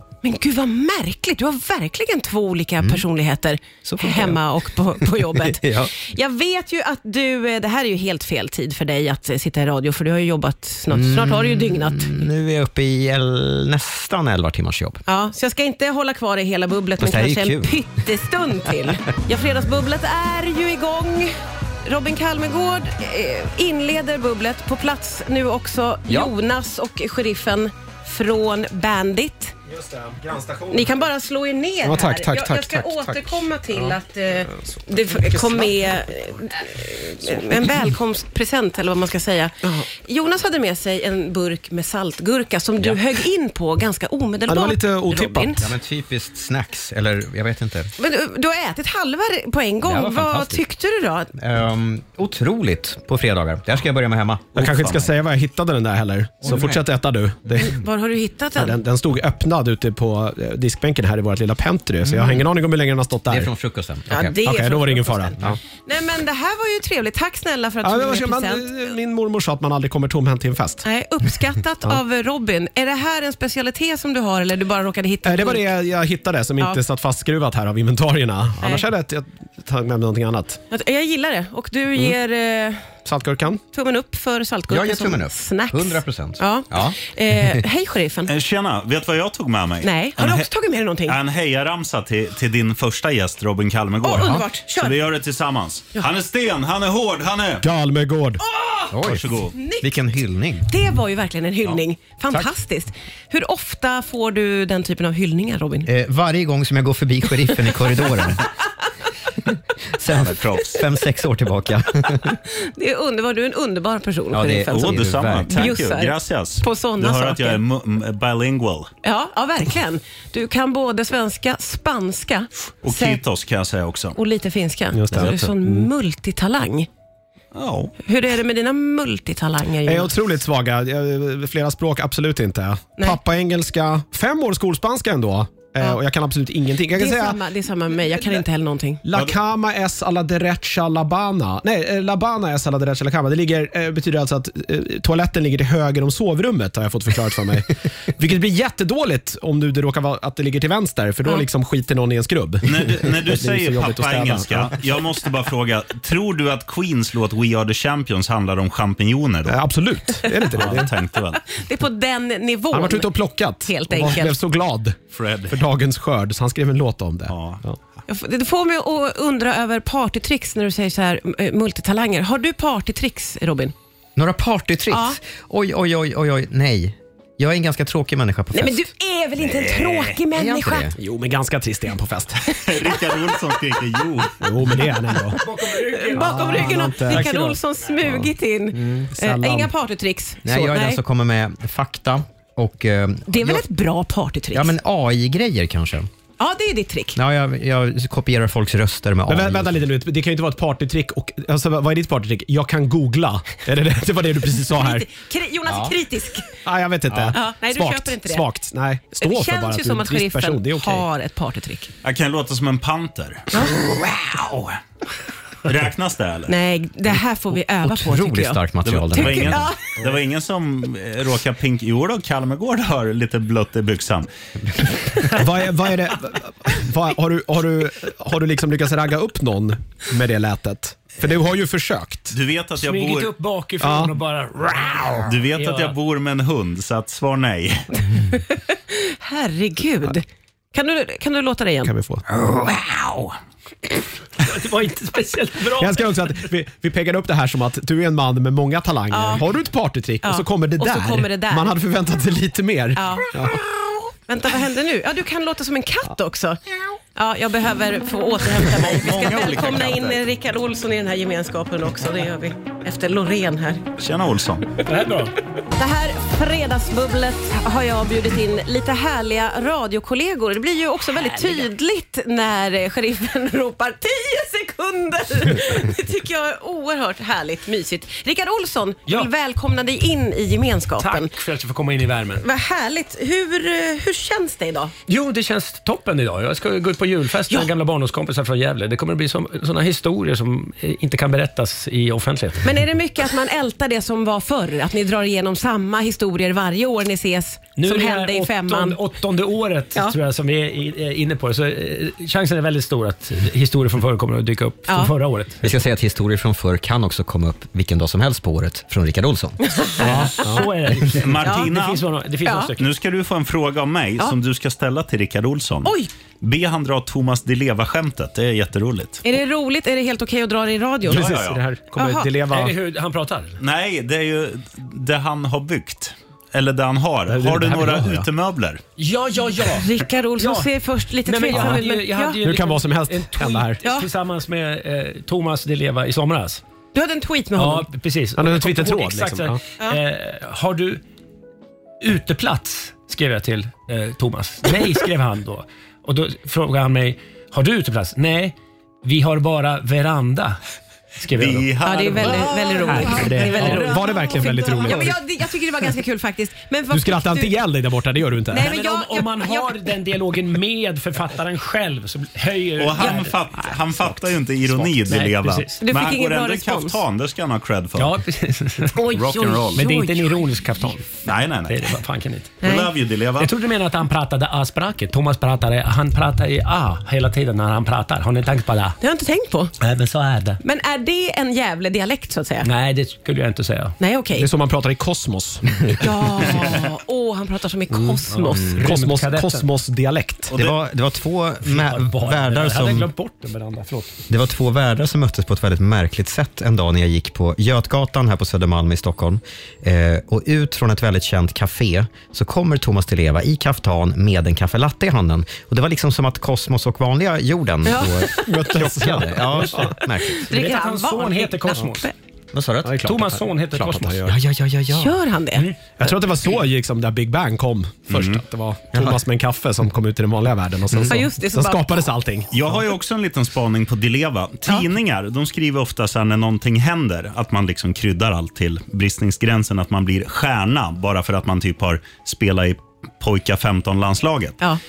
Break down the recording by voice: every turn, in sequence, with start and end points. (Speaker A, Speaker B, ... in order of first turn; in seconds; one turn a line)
Speaker A: 0.2-12.2
Speaker B: 3.8-4.4
Speaker B: 5.0-5.9
Speaker B: 10.9-15.0
Speaker A: 15.1-21.3
Speaker B: 17.0-17.8
Speaker A: 21.8-29.5
Speaker C: 29.7-31.0
Speaker A: 30.7-45.7
Speaker C: 31.8-34.0
Speaker C: 34.5-35.9
Speaker C: 44.5-45.6
Speaker B: 45.6-47.9
Speaker A: 48.0-51.3
Speaker B: 49.8-50.6
Speaker B: 51.3-55.0
Speaker C: 54.5-57.8
Speaker B: 56.4-56.9
Speaker A: 57.6-58.8
Speaker C: 58.5-63.5
Speaker B: 62.0-62.4
Speaker B: 63.3-64.3
Speaker A: 64.1-68.7
Speaker C: 64.4-65.6
Speaker C: 67.8-70.8
Speaker A: 70.8-75.7
Speaker C: 75.2-80.6
Speaker A: 78.6-78.8
Speaker A: 80.7-82.9
Speaker C: 83.0-83.6
Speaker A: 83.7-88.3
Speaker B: 84.7-87.6
Speaker D: 88.3-90.5
Speaker A: 89.8-91.2
Speaker D: 91.1-97.6
Speaker A: 94.0-95.0
Speaker C: 97.6-98.4
Speaker A: 98.5-98.9
Speaker B: 98.9-100.7
Speaker D: 99.0-99.5
Speaker A: 99.5-99.9
Speaker A: 100.7-105.9
Speaker B: 105.8-108.5
Speaker B: 109.9-112.4
Speaker D: 110.2-110.8
Speaker A: 112.5-117.6
Speaker B: 114.3-115.7
Speaker D: 114.7-118.9
Speaker A: 119.0-123.2
Speaker D: 122.8-124.2
Speaker A: 124.1-126.9
Speaker C: 124.9-125.9
Speaker D: 127.5-127.9
Speaker A: 128.0-130.1
Speaker C: 129.8-137.4
Speaker A: 136.9-139.0
Speaker C: 139.0-154.8
Speaker D: 152.6-159.6
Speaker C: 159.5-160.9
Speaker D: 160.5-161.4
Speaker A: 161.4-164.3
Speaker C: 162.7-165.0
Speaker D: 165.1-165.6
Speaker C: 165.5-167.8
Speaker D: 167.3-167.6
Speaker A: 168.1-173.7
Speaker B: 174.2-178.9
Speaker A: 174.9-175.2
Speaker A: 178.5-180.9
Speaker B: 180.3-180.9
Speaker C: 180.9-182.6
Speaker D: 182.6-184.4
Speaker C: 184.4-185.4
Speaker E: 185.4-187.6
Speaker A: 185.7-191.0
Speaker C: 186.1-187.2
Speaker B: 188.8-189.1
Speaker C: 189.1-189.7
Speaker B: 190.4-193.6
Speaker A: 193.3-194.7
Speaker B: 194.5-196.1
Speaker A: 196.4-197.2
Speaker B: 197.1-199.8
Speaker C: 199.3-205.1
Speaker A: 204.8-206.5
Speaker B: 205.7-205.9
Speaker C: 206.6-211.1
Speaker A: 207.3-208.5
Speaker A: 209.1-211.9
Speaker D: 212.0-214.8
Speaker D: 215.6-216.5
Speaker A: 216.5-218.6
Speaker B: 217.8-219.7
Speaker D: 218.8-224.3
Speaker A: 219.1-219.8
Speaker C: 225.3-232.3
Speaker D: 232.3-233.3
Speaker E: 232.8-235.9
Speaker C: 233.8-234.2
Speaker D: 235.2-238.0
Speaker A: 238.3-241.9
Speaker C: 241.8-242.2
Speaker D: 242.6-243.3
Speaker E: 244.4-246.1
Speaker C: 245.8-253.6
Speaker A: 249.1-249.4
Speaker A: 250.2-251.7
Speaker A: 252.9-253.6
Speaker A: 254.3-256.6
Speaker A: 257.1-263.8
Speaker D: 258.9-260.1
Speaker B: 259.0-259.8
Speaker D: 264.0-264.7
Speaker E: 264.8-265.3
Speaker A: 265.7-281.3
Speaker E: 271.1-271.7
Speaker E: 281.0-282.4
Speaker A: 282.4-284.9
Speaker E: 285.1-292.7
Speaker A: 292.6-299.0
Speaker E: 297.8-305.6
Speaker A: 304.9-305.1
Speaker B: 305.6-309.6
Speaker A: 309.6-310.6
Speaker C: 310.0-310.6
Speaker E: 310.0-312.9
Speaker D: 311.1-312.0
Speaker A: 311.4-311.7
Speaker D: 312.8-319.2
Speaker A: 319.2-321.4
Speaker C: 321.1-322.8
Speaker D: 321.1-321.6
Speaker A: 321.9-322.3
Speaker E: 322.5-323.6
Speaker D: 323.6-328.8
Speaker C: 327.3-328.3
Speaker E: 329.0-329.9
Speaker A: 329.7-332.4
Speaker E: 330.4-336.6
Speaker C: 332.4-333.8
Speaker A: 333.8-334.1
Speaker A: 336.9-337.9
Speaker E: 337.5-341.0
Speaker C: 338.4-339.6
Speaker E: 342.0-350.6
Speaker E: 351.2-355.1
Speaker D: 351.4-352.5
Speaker A: 351.8-357.6
Speaker C: 352.9-355.2
Speaker C: 356.9-358.7
Speaker A: 358.5-359.8
Speaker E: 358.6-363.4
Speaker D: 362.8-368.2
Speaker E: 364.7-365.8
Speaker A: 365.8-367.0
Speaker E: 367.9-369.0
Speaker A: 368.9-370.4
Speaker D: 369.1-369.8
Speaker E: 369.7-372.7
Speaker D: 371.2-372.0
Speaker D: 372.6-373.5
Speaker A: 372.6-372.9
Speaker E: 373.4-379.0
Speaker A: 379.0-379.7
Speaker E: 379.8-380.6
Speaker A: 380.6-382.7
Speaker E: 382.6-383.9
Speaker A: 384.0-384.5
Speaker C: 384.4-386.4
Speaker A: 386.0-388.8
Speaker E: 388.3-389.7
Speaker C: 388.7-390.5
Speaker B: 390.5-393.1
Speaker E: 391.6-394.1
Speaker B: 394.3-410.4
Speaker A: 407.9-408.6
Speaker C: 408.4-410.0
Speaker A: 410.2-412.1
Speaker E: 410.3-412.1
Speaker B: 412.5-413.1
Speaker C: 412.8-414.3
Speaker E: 413.0-414.4
Speaker B: 414.2-415.1
Speaker A: 414.9-415.7
Speaker C: 416.0-422.5
Speaker D: 418.1-418.4
Speaker B: 418.9-419.2
Speaker A: 421.1-422.1
Speaker D: 422.5-434.6